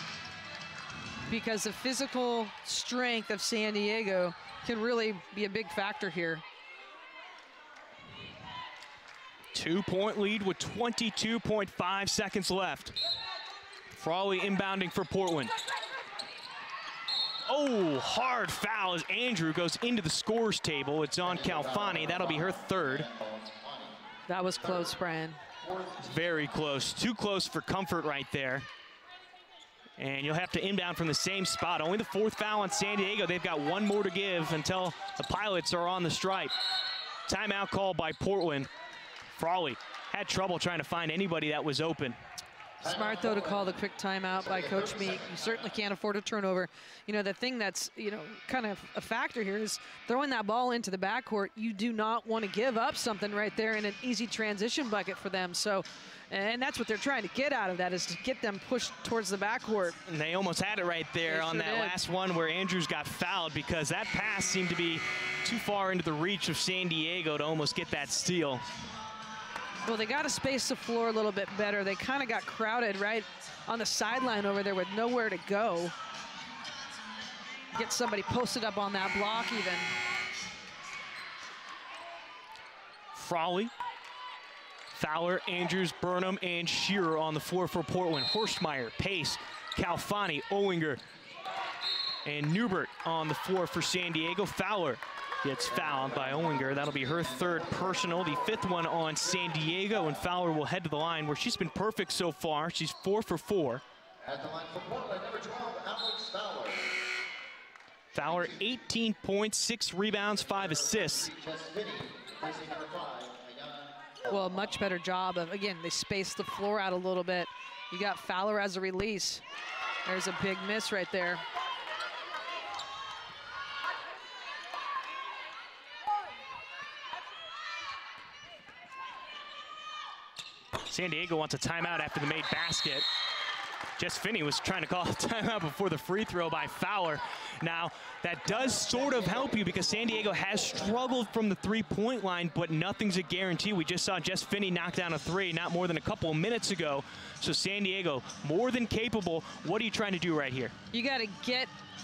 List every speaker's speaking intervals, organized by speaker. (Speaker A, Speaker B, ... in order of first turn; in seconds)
Speaker A: 1.2-6.4, 24.3-25.4, 42.8-60.0, 61.2-62.0, 69.8-75.9, 77.7-79.9, 114.3-119.4, 120.0-121.4, 150.9-151.7
Speaker B: 9.5-12.9, 13.9-15.5, 17.5-23.1, 26.0-28.7, 30.0-36.5, 37.3-38.7, 39.3-42.2, 60.0-68.6, 83.1-83.7, 84.9-91.0, 92.2-103.8, 108.1-111.3, 130.8-133.1, 134.0-150.7
Speaker C: 21.2-24.1, 24.6-24.9, 25.6-26.5, 42.8-45.9, 95.6-98.5, 99.3-100.0, 104.2-107.0, 108.1-108.8, 110.3-114.8, 138.5-141.0